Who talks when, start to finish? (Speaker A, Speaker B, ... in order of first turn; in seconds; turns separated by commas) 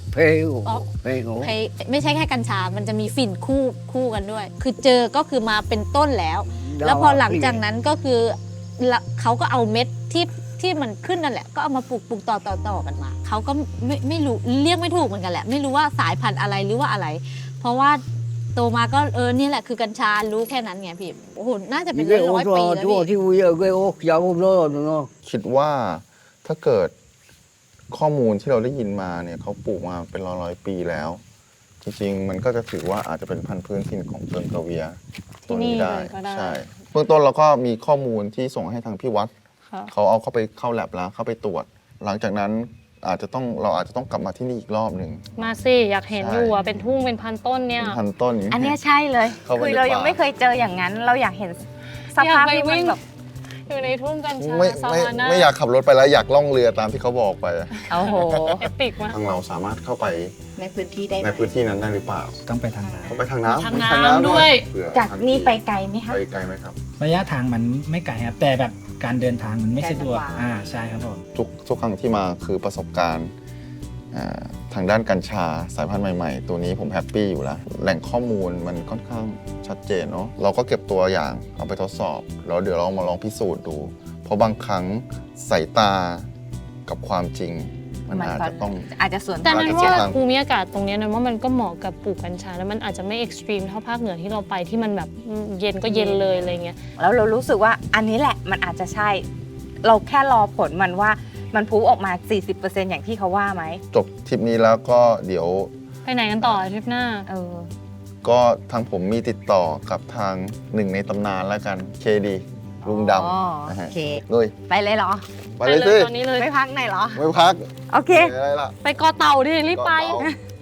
Speaker A: 0.1-1.3, Speaker B: 1.4-18.0, Speaker A: 6.8-7.5, Speaker B: 18.6-23.1, Speaker A: 22.0-25.1, Speaker C: 25.2-26.9, Speaker C: 27.9-31.2, Speaker C: 31.8-39.3, Speaker D: 35.5-36.6, Speaker C: 39.9-45.6, Speaker D: 45.4-48.0, Speaker C: 46.1-46.9, Speaker C: 47.8-48.8, Speaker E: 48.5-53.0, Speaker C: 49.4-50.2, Speaker D: 52.2-53.0, Speaker D: 53.7-55.5, Speaker C: 54.4-60.3, Speaker D: 57.8-59.2, Speaker E: 57.9-58.6, Speaker E: 60.6-61.5, Speaker C: 61.2-62.4, Speaker F: 62.5-63.2, Speaker E: 62.8-63.8, Speaker C: 63.1-66.8, Speaker D: 63.5-64.7, Speaker E: 64.9-66.2, Speaker F: 67.0-71.2, Speaker E: 69.8-70.7, Speaker C: 71.3-73.3, Speaker C: 74.1-86.3, Speaker C: 86.9-88.9, Speaker E: 88.1-90.1, Speaker D: 89.4-96.8, Speaker C: 89.4-90.2, Speaker E: 95.8-99.3, Speaker E: 99.8-103.8, Speaker C: 103.9-105.7, Speaker D: 106.0-107.3, Speaker E: 107.3-107.7, Speaker C: 108.2-114.5, Speaker E: 112.8-115.3, Speaker C: 115.6-116.1, Speaker D: 115.6-116.5, Speaker E: 116.3-117.2, Speaker C: 117.2-118.8, Speaker E: 117.9-118.3, Speaker D: 118.8-120.3, Speaker C: 119.7-120.3